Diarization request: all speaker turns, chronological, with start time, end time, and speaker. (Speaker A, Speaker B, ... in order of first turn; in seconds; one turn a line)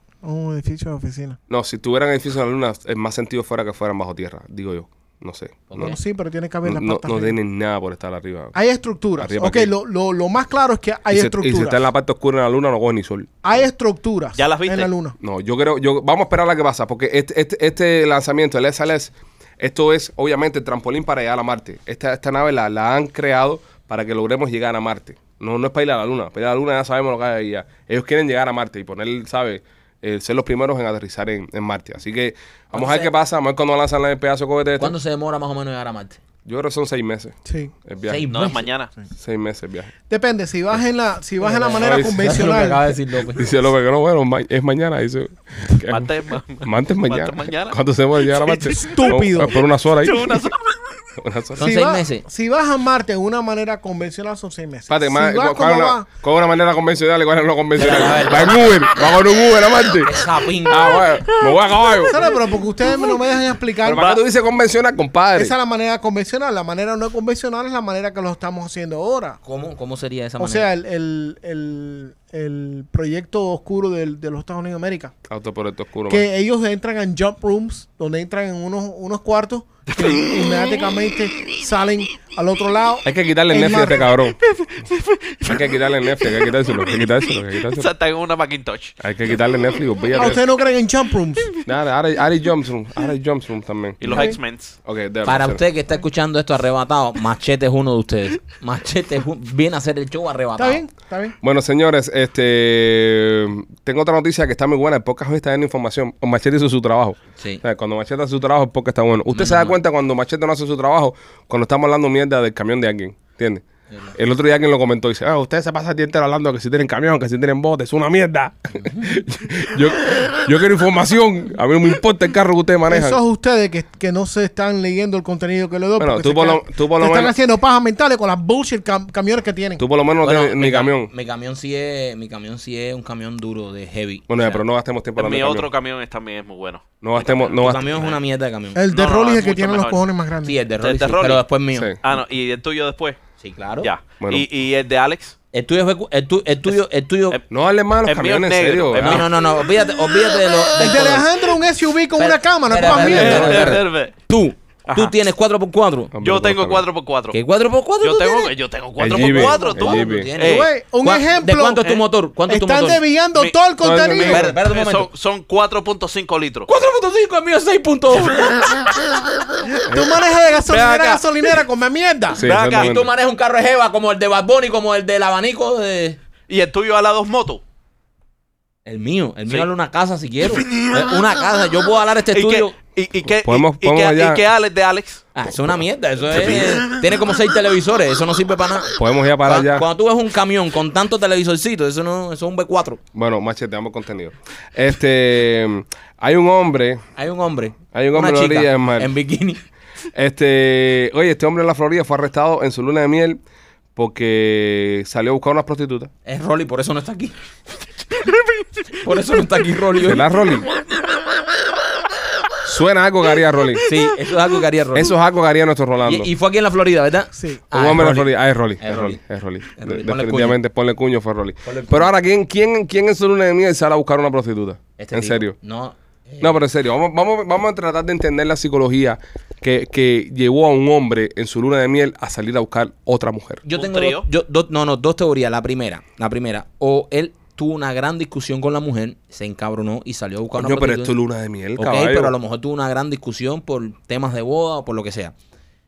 Speaker A: 0.2-1.4
Speaker B: 1.5-5.9
Speaker C: 5.7-6.0
Speaker A: 5.8-7.4
Speaker B: 6.7-8.6
Speaker A: 8.5-11.8
Speaker B: 9.2-9.7
Speaker B: 11.1-13.3
Speaker A: 13.4-15.2
Speaker D: 14.4-14.9
Speaker B: 15.2-35.0
Speaker C: 32.7-33.1
Speaker C: 34.8-36.2
Speaker B: 36.5-38.3
Speaker A: 37.5-37.7
Speaker C: 38.0-38.7
Speaker D: 38.3-38.9
Speaker B: 39.2-39.9
Speaker A: 40.1-42.9
Speaker C: 41.4-43.5
Speaker B: 41.7-42.4
Speaker B: 43.3-50.5
Speaker D: 45.9-47.8
Speaker D: 48.4-49.0
Speaker A: 48.5-49.6
Speaker D: 50.0-50.9
Speaker B: 51.2-51.7
Speaker C: 51.6-52.2
Speaker A: 51.6-56.1
Speaker B: 54.9-62.2
Speaker C: 57.8-58.8
Speaker C: 60.0-61.0
Speaker D: 61.4-62.1
Speaker A: 62.0-64.1
Speaker B: 63.8-65.5
Speaker D: 63.9-64.2
Speaker A: 65.4-69.4
Speaker C: 69.4-70.7
Speaker A: 70.4-75.1
Speaker B: 75.3-76.2
Speaker A: 76.1-84.1
Speaker D: 80.0-80.3
Speaker B: 83.0-84.4
Speaker D: 84.5-85.7
Speaker B: 85.5-87.9
Speaker D: 86.2-89.0
Speaker B: 89.0-90.4
Speaker A: 90.2-91.5
Speaker B: 91.6-94.3
Speaker D: 94.0-94.8
Speaker A: 94.0-94.4
Speaker B: 94.8-95.6
Speaker C: 95.3-100.8
Speaker A: 100.6-101.4
Speaker B: 101.4-113.6
Speaker C: 109.3-109.8
Speaker B: 114.1-123.2
Speaker A: 122.9-129.8
Speaker B: 126.0-127.3
Speaker B: 129.8-131.1
Speaker C: 130.2-134.6
Speaker B: 134.3-135.7
Speaker D: 135.2-138.2
Speaker B: 137.0-138.1
Speaker C: 137.6-138.8
Speaker A: 138.8-140.6
Speaker D: 138.9-140.0
Speaker C: 140.4-141.9
Speaker D: 140.8-141.4
Speaker B: 141.7-142.0
Speaker D: 142.0-143.2
Speaker C: 143.4-143.9
Speaker D: 143.8-145.4
Speaker B: 144.2-144.5
Speaker C: 145.5-147.4
Speaker B: 147.5-149.2
Speaker D: 148.1-149.4
Speaker C: 149.0-151.3
Speaker A: 150.8-153.8
Speaker C: 152.2-156.1
Speaker D: 152.8-154.1
Speaker D: 154.9-155.1
Speaker B: 156.1-156.8
Speaker D: 156.2-157.4
Speaker C: 157.3-158.5
Speaker D: 158.0-160.7
Speaker B: 159.0-160.3
Speaker C: 159.1-163.1
Speaker A: 160.4-161.8
Speaker A: 162.5-164.5
Speaker B: 163.8-164.5
Speaker C: 164.2-165.1
Speaker D: 164.3-166.7
Speaker C: 166.7-168.9
Speaker A: 169.7-172.4
Speaker B: 169.9-170.2
Speaker D: 170.7-171.5
Speaker D: 172.3-172.9
Speaker B: 172.3-173.1
Speaker C: 172.6-176.2
Speaker D: 176.5-177.6
Speaker C: 178.9-182.7
Speaker D: 182.3-185.2
Speaker B: 183.2-184.4
Speaker C: 185.3-193.0
Speaker D: 186.4-186.7
Speaker B: 189.0-189.8
Speaker B: 193.1-197.0
Speaker C: 197.2-199.6
Speaker B: 197.9-199.1
Speaker B: 200.1-203.4
Speaker B: 204.0-206.1
Speaker C: 206.3-207.3
Speaker C: 209.0-210.3
Speaker B: 210.0-210.7
Speaker B: 212.6-213.8
Speaker C: 213.8-215.1
Speaker B: 214.9-216.3
Speaker C: 216.0-219.2
Speaker A: 217.3-217.6
Speaker B: 217.7-225.6
Speaker C: 219.7-220.6
Speaker C: 221.6-222.1
Speaker C: 225.0-226.6
Speaker B: 226.4-233.6
Speaker C: 233.6-241.1
Speaker D: 233.7-234.2
Speaker B: 240.6-242.4
Speaker C: 241.8-245.3